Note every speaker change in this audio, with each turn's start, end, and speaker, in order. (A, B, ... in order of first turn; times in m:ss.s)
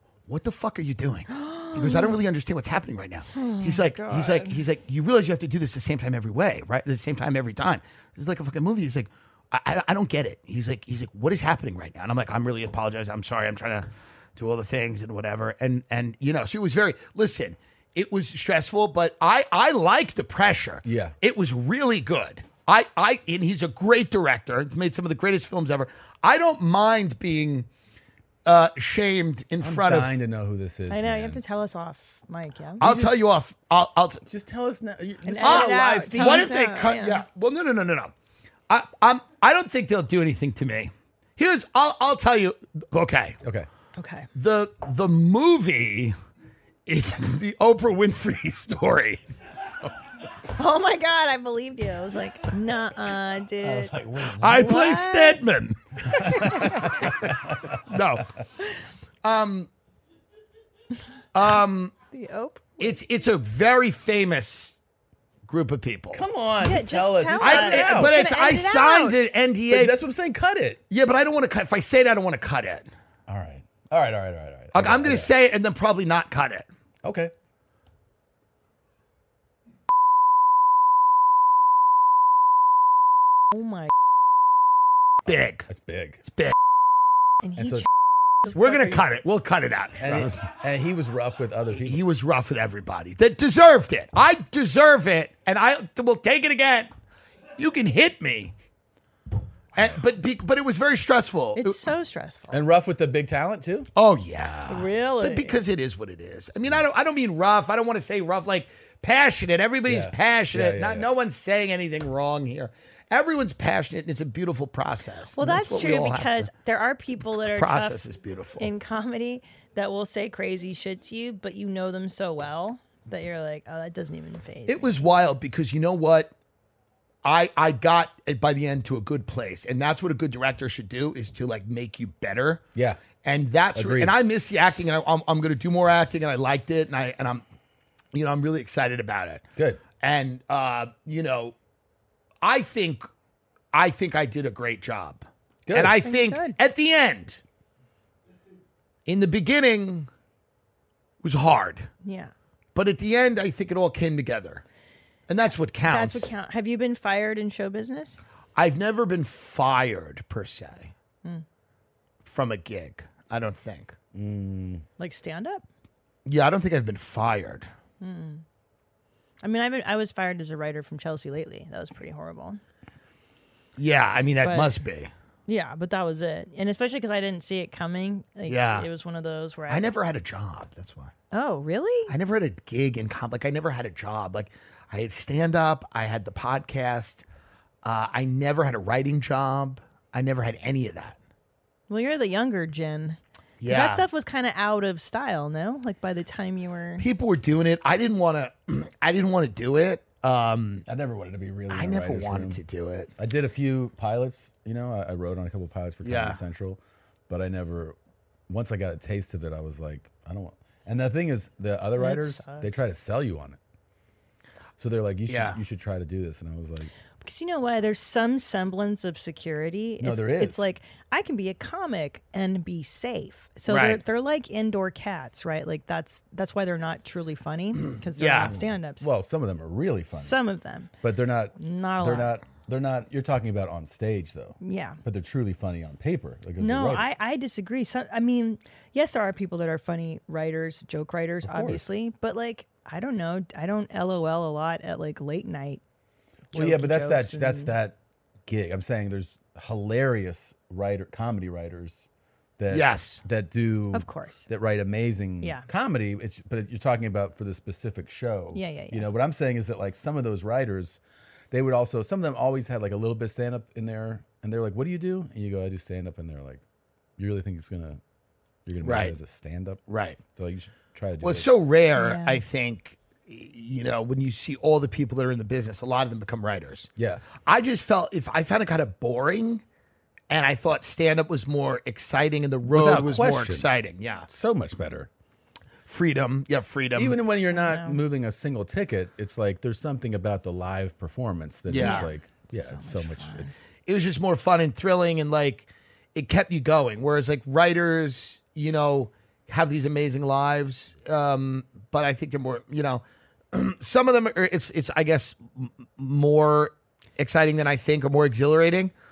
0:00.3-0:27.7 A
0:01.3-0:02.1 B
0:03.3-0:04.6 B
0:20.8-0:21.1 C
0:28.4-0:30.2 A
0:29.6-0:31.4 C
0:30.9-0:32.9 B
0:32.8-0:34.2 A
0:32.8-0:33.1 C
0:34.3-0:36.6 C
0:35.2-0:37.2 B
0:35.4-0:38.1 A
0:38.7-0:43.4 A
0:44.0-0:44.3 B
0:44.3-0:46.1 A
0:46.9-0:49.2 A
0:50.4-0:55.4 B
0:53.6-0:54.6 C
0:54.3-0:57.1 A
0:56.2-0:57.8 C
0:57.8-0:58.3 A
0:59.2-0:59.7 A
1:01.3-1:01.9 A
1:02.1-1:02.9 B
1:02.8-1:04.8 A
1:05.5-1:06.2 A
1:06.1-1:08.2 C
1:06.6-1:09.2 B
1:07.4-1:10.0 A
1:09.7-1:10.8 C
1:10.9-1:12.9 A
1:13.3-1:15.3 C
1:14.7-1:16.7 A
1:17.0-1:17.3 C
1:23.5-1:23.9 B
1:25.2-1:25.7 A
1:25.7-1:26.2 C
1:26.2-1:26.5 A
1:27.4-1:27.8 B
1:27.6-1:27.8 C
1:28.4-1:30.5 A
1:30.0-1:32.0 C
1:31.7-1:36.9 A
1:37.6-1:38.5 A
1:39.7-1:41.8 A
1:41.6-1:42.6 B
1:42.5-1:43.9 C
1:43.9-1:56.5 A
1:44.7-1:45.6 B
1:49.9-1:51.1 C
1:55.3-1:58.0 B
1:57.3-1:58.7 A
1:58.6-2:04.9 B
2:04.7-2:06.3 A
2:07.2-2:12.6 A
2:12.7-2:13.0 C
2:13.2-2:17.4 A
2:13.7-2:14.1 C
2:18.1-2:19.4 A
2:20.0-2:21.5 A
2:22.4-2:23.0 A
2:23.7-2:27.4 A
2:25.6-2:26.0 C
2:25.8-2:26.6 B
2:29.0-2:30.1 A
2:31.2-2:31.9 A
2:32.0-2:32.3 B
2:32.7-2:34.6 A
2:35.3-2:36.3 A
2:35.8-2:38.2 B
2:38.5-2:40.9 A
2:42.2-2:44.0 A
2:44.1-2:44.8 C
2:45.0-2:45.6 B
2:46.2-2:47.7 A
2:48.0-2:48.4 B
2:49.4-2:52.6 B
2:53.8-2:55.1 A
2:54.4-2:54.7 B
2:55.5-2:59.8 B
2:58.5-2:58.9 A
2:59.7-3:01.1 A
3:01.3-3:02.1 B
3:02.1-3:07.2 A
3:07.8-3:11.2 A
3:11.9-3:17.0 B
3:13.6-3:14.0 A
3:17.0-3:20.9 A
3:20.9-3:22.6 C
3:21.7-3:23.1 A
3:23.2-3:27.9 C
3:26.0-3:26.4 A
3:28.5-3:33.6 C
3:32.0-3:32.8 B
3:34.8-3:36.9 C
3:35.3-3:35.6 A
3:37.2-3:49.1 B
3:40.0-3:40.6 C
3:43.7-3:44.0 A
3:48.1-3:48.5 A
3:48.5-3:50.4 C
3:50.1-3:50.9 B
3:51.0-3:57.0 C
3:51.6-3:52.3 B
3:54.6-3:55.0 B
3:56.6-4:05.8 B
4:01.4-4:01.8 C
4:06.5-4:07.9 C
4:06.5-4:07.7 B
4:08.5-4:12.0 C
4:12.6-4:21.0 C
4:12.7-4:13.2 A
4:13.9-4:14.5 B
4:18.5-4:19.1 B
4:21.5-4:26.6 C
4:27.2-4:28.0 C
4:28.6-4:31.5 C
4:28.8-4:29.1 A
4:29.9-4:30.2 A
4:31.2-4:39.6 A
4:32.0-4:32.4 B
4:37.0-4:37.3 C
4:40.3-4:44.3 A
4:42.7-4:43.6 C
4:44.3-4:45.1 C
4:45.8-4:47.2 A
4:47.0-4:53.5 C
4:47.5-4:48.0 B
4:51.7-4:52.1 A
4:51.8-4:53.5 B
4:53.8-5:08.9 A